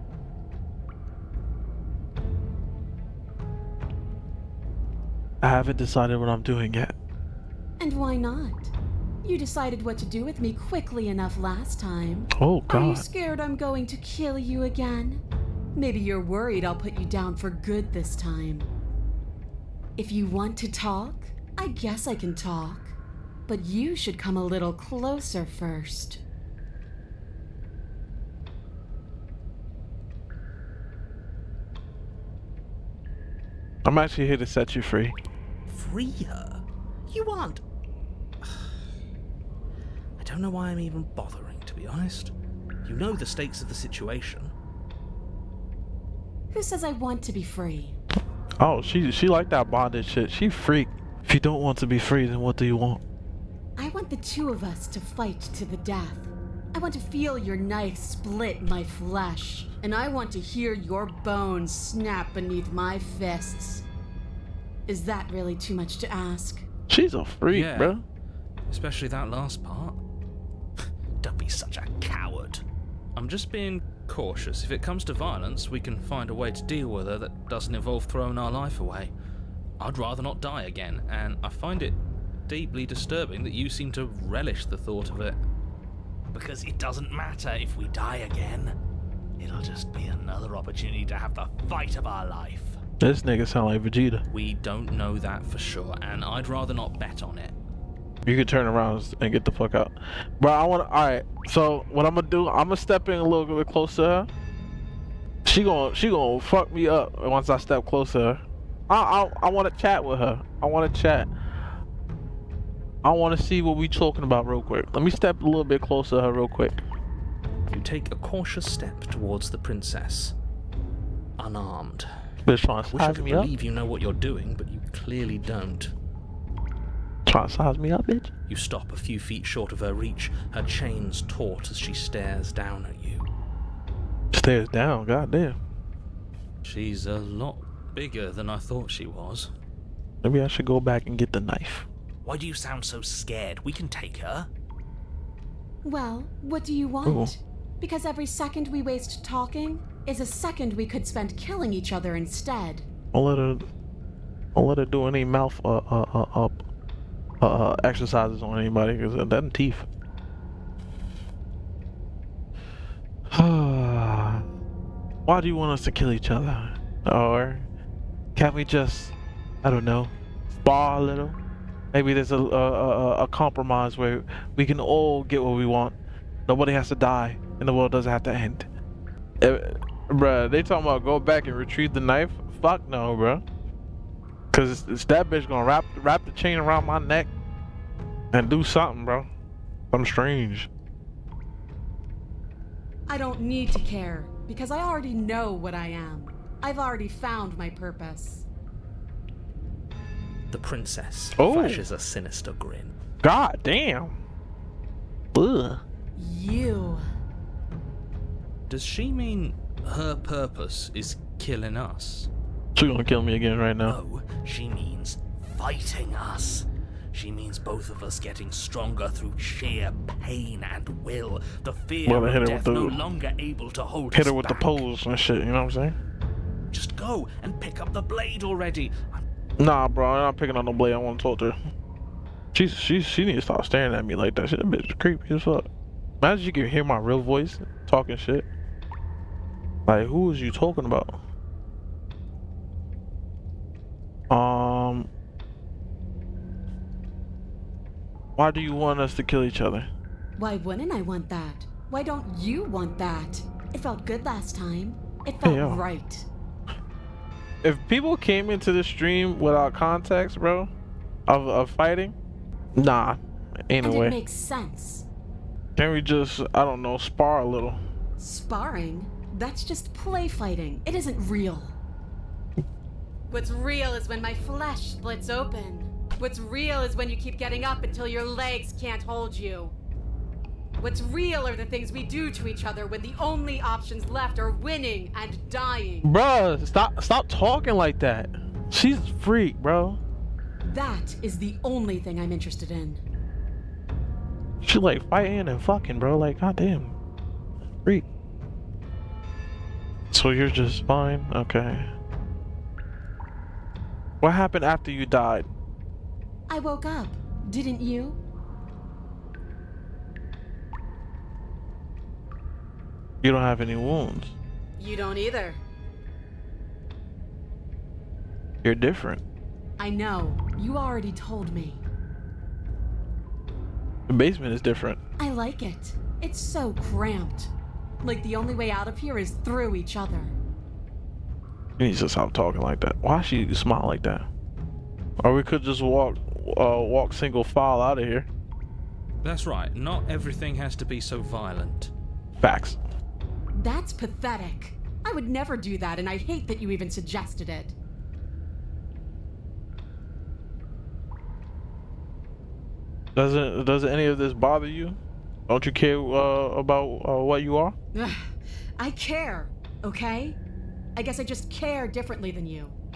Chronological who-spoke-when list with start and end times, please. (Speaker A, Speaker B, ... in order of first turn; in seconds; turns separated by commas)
Speaker A: 5.4-6.9, Speaker B: 7.8-8.7, Speaker B: 9.2-15.2, Speaker A: 12.3-13.0, Speaker B: 15.7-18.7, Speaker B: 20.0-22.9, Speaker B: 23.5-26.2, Speaker A: 33.8-35.1, Speaker C: 35.7-37.6, Speaker C: 40.2-44.5, Speaker B: 46.5-48.0, Speaker A: 48.6-53.0, Speaker B: 53.8-63.9, Speaker B: 64.9-66.6, Speaker A: 66.9-68.0, Speaker C: 67.5-68.0, Speaker C: 68.7-70.0, Speaker C: 71.2-72.6, Speaker C: 73.1-79.1, Speaker C: 79.8-85.4, Speaker C: 86.3-88.7, Speaker C: 89.4-92.8, Speaker A: 93.0-94.2, Speaker C: 94.3-97.5, Speaker A: 98.2-104.3, Speaker A: 105.4-111.3, Speaker A: 113.0-116.8, Speaker C: 117.7-120.3, Speaker C: 121.4-122.1, Speaker A: 122.5-123.5, Speaker C: 122.8-125.9, Speaker A: 127.3-128.3, Speaker C: 128.5-133.3, Speaker A: 134.3-135.6, Speaker C: 136.6-139.5, Speaker A: 140.2-141.9, Speaker C: 142.2-144.5, Speaker B: 145.8-152.9, Speaker A: 147.0-147.3, Speaker A: 153.1-153.7, Speaker A: 154.5-156.6, Speaker A: 157.4-159.9, Speaker A: 163.3-164.4, Speaker A: 165.3-167.7, Speaker A: 168.3-171.4, Speaker A: 171.9-175.9, Speaker A: 176.5-178.7, Speaker A: 179.4-183.4, Speaker A: 184.5-187.3, Speaker A: 188.3-189.3, Speaker A: 189.9-190.7, Speaker B: 193.1-198.5, Speaker C: 200.5-202.9, Speaker A: 201.4-201.8, Speaker A: 203.2-204.2, Speaker A: 205.3-205.8, Speaker B: 206.2-207.0, Speaker C: 208.7-212.3, Speaker A: 212.7-214.0, Speaker C: 213.8-224.8, Speaker A: 222.1-223.0, Speaker A: 224.1-225.9, Speaker C: 226.7-229.2, Speaker A: 229.6-231.6, Speaker A: 232.5-235.7, Speaker A: 236.2-238.5, Speaker A: 239.9-241.2, Speaker A: 244.3-245.1, Speaker A: 248.4-249.9, Speaker B: 250.4-256.3, Speaker A: 255.4-255.8, Speaker A: 257.6-260.7, Speaker A: 261.3-262.1, Speaker A: 262.7-264.1, Speaker B: 263.8-265.1, Speaker A: 265.8-267.8, Speaker B: 268.2-271.8, Speaker B: 273.3-279.8, Speaker B: 280.8-286.1, Speaker A: 286.0-290.0, Speaker B: 290.7-293.0, Speaker A: 294.6-296.9, Speaker A: 300.1-301.9, Speaker A: 304.2-305.5, Speaker B: 306.5-308.2, Speaker A: 313.2-314.3, Speaker B: 314.8-315.6, Speaker A: 318.6-319.2, Speaker B: 319.8-321.8, Speaker A: 324.1-325.0, Speaker B: 325.2-330.4, Speaker A: 331.8-334.3, Speaker A: 335.2-338.3, Speaker C: 339.2-341.9, Speaker A: 342.4-342.8, Speaker B: 343.5-347.8, Speaker A: 353.1-357.7, Speaker B: 357.9-360.4, Speaker B: 360.9-362.8